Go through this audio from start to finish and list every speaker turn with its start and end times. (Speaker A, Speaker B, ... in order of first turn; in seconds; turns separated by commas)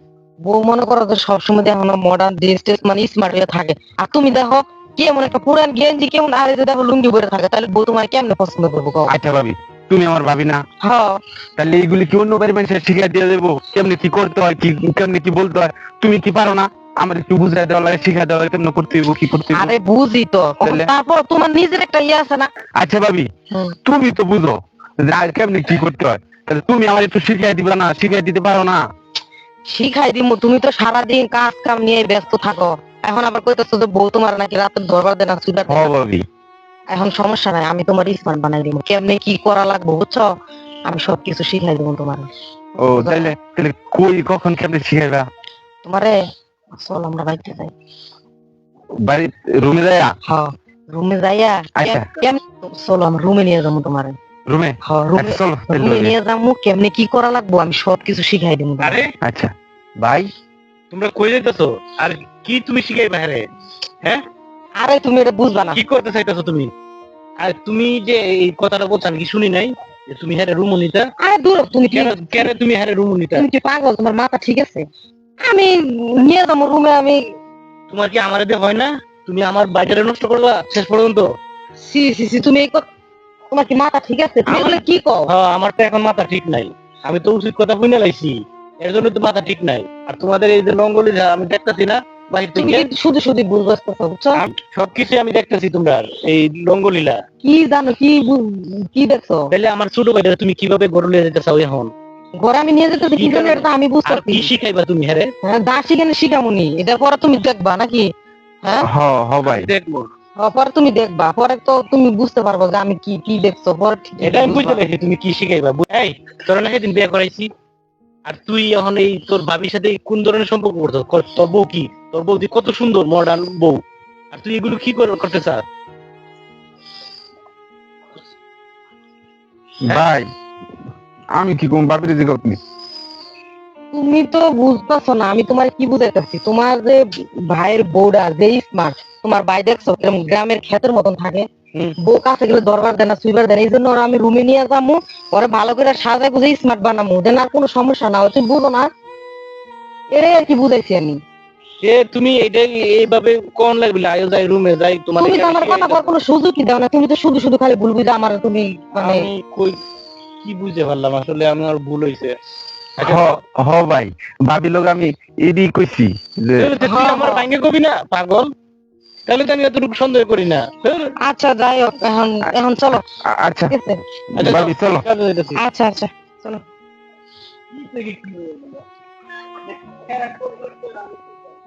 Speaker A: 0.4-9.1, Speaker B: 9.1-10.6, Speaker A: 10.8-11.2, Speaker B: 11.6-19.7, Speaker A: 19.5-22.5, Speaker B: 20.6-20.9, Speaker B: 22.8-23.3, Speaker B: 23.9-28.8, Speaker A: 29.7-35.9, Speaker B: 35.7-36.2, Speaker A: 36.9-40.3, Speaker A: 40.9-42.3, Speaker B: 42.8-45.3, Speaker A: 42.8-43.3, Speaker A: 45.8-46.1, Speaker A: 46.8-47.7, Speaker B: 49.0-50.1, Speaker A: 50.3-54.2, Speaker B: 51.8-52.1, Speaker B: 54.5-56.1, Speaker A: 54.9-59.0, Speaker C: 58.8-59.1, Speaker B: 59.2-60.3, Speaker C: 60.9-63.4, Speaker A: 64.8-65.8, Speaker C: 65.7-66.7, Speaker C: 67.4-71.1, Speaker A: 71.2-72.5, Speaker C: 71.9-73.5, Speaker A: 73.4-74.8, Speaker A: 75.4-77.2, Speaker C: 77.9-81.3, Speaker A: 81.8-82.9, Speaker A: 83.5-85.3, Speaker C: 84.5-92.9, Speaker A: 92.6-94.4, Speaker C: 94.4-97.2, Speaker A: 97.4-99.5, Speaker C: 99.5-101.9, Speaker A: 102.4-104.5, Speaker C: 103.2-105.3, Speaker A: 105.4-108.1, Speaker A: 108.6-108.9, Speaker B: 108.8-109.7, Speaker C: 109.4-110.1, Speaker A: 110.4-114.8, Speaker C: 114.2-117.5, Speaker C: 118.3-123.8, Speaker C: 124.3-125.6, Speaker B: 129.8-130.3, Speaker B: 131.3-132.6, Speaker A: 133.9-141.4, Speaker A: 142.0-148.9, Speaker A: 150.1-151.2, Speaker C: 151.8-156.1, Speaker A: 155.2-159.3, Speaker C: 159.0-159.8, Speaker C: 160.4-162.4, Speaker C: 163.0-163.4, Speaker B: 163.0-166.7, Speaker C: 166.6-168.5, Speaker A: 166.8-167.5, Speaker C: 169.3-171.1, Speaker A: 171.2-173.1, Speaker B: 173.3-173.8, Speaker A: 173.7-174.0, Speaker C: 174.4-175.6, Speaker B: 174.4-175.1, Speaker A: 175.6-176.6, Speaker C: 177.7-178.8, Speaker C: 179.8-181.2